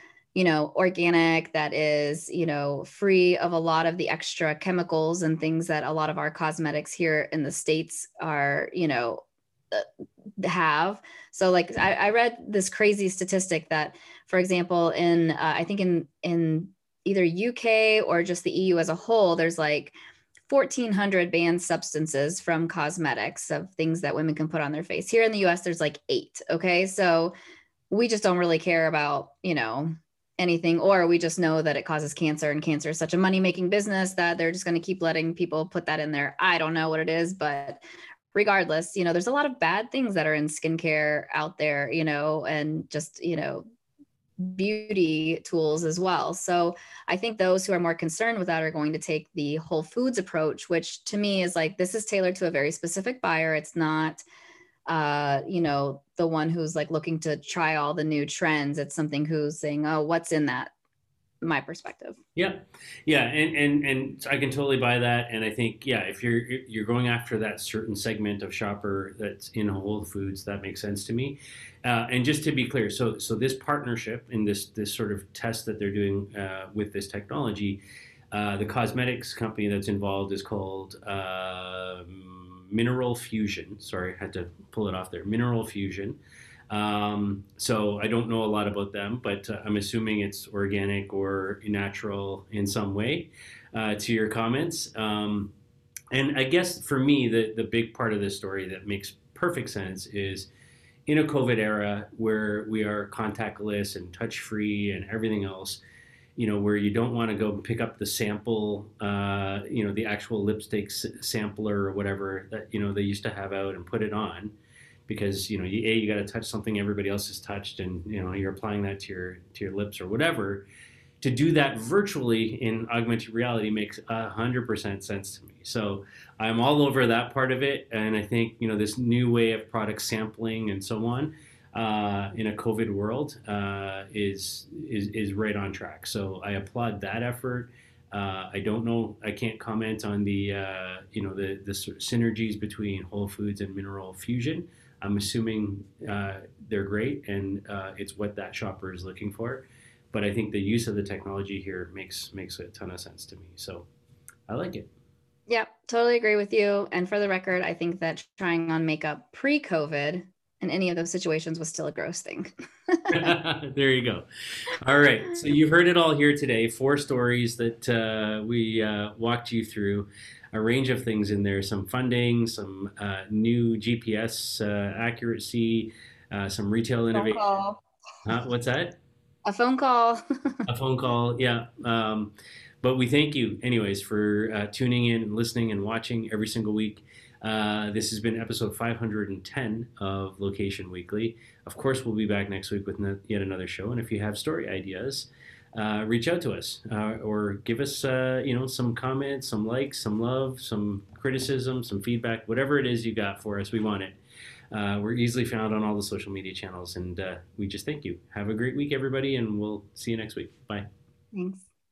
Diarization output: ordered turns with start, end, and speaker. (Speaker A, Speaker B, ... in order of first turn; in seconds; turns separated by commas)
Speaker A: 0.3-9.9, Speaker A: 10.4-19.9, Speaker A: 20.5-27.4, Speaker A: 27.9-37.8, Speaker A: 38.3-43.6, Speaker A: 44.4-54.2, Speaker A: 54.9-60.7, Speaker A: 61.4-62.2, Speaker B: 62.4-77.8, Speaker B: 78.3-86.2, Speaker B: 86.7-95.5, Speaker B: 96.1-100.5, Speaker B: 101.1-105.8, Speaker B: 106.4-114.5, Speaker B: 115.1-120.7, Speaker B: 121.2-153.9, Speaker B: 154.5-154.9, Speaker A: 155.5-163.3, Speaker B: 163.1-177.5, Speaker A: 177.1-177.8, Speaker B: 178.2-179.0, Speaker A: 179.5-180.6, Speaker B: 180.7-204.2, Speaker B: 204.7-210.9, Speaker A: 211.3-211.7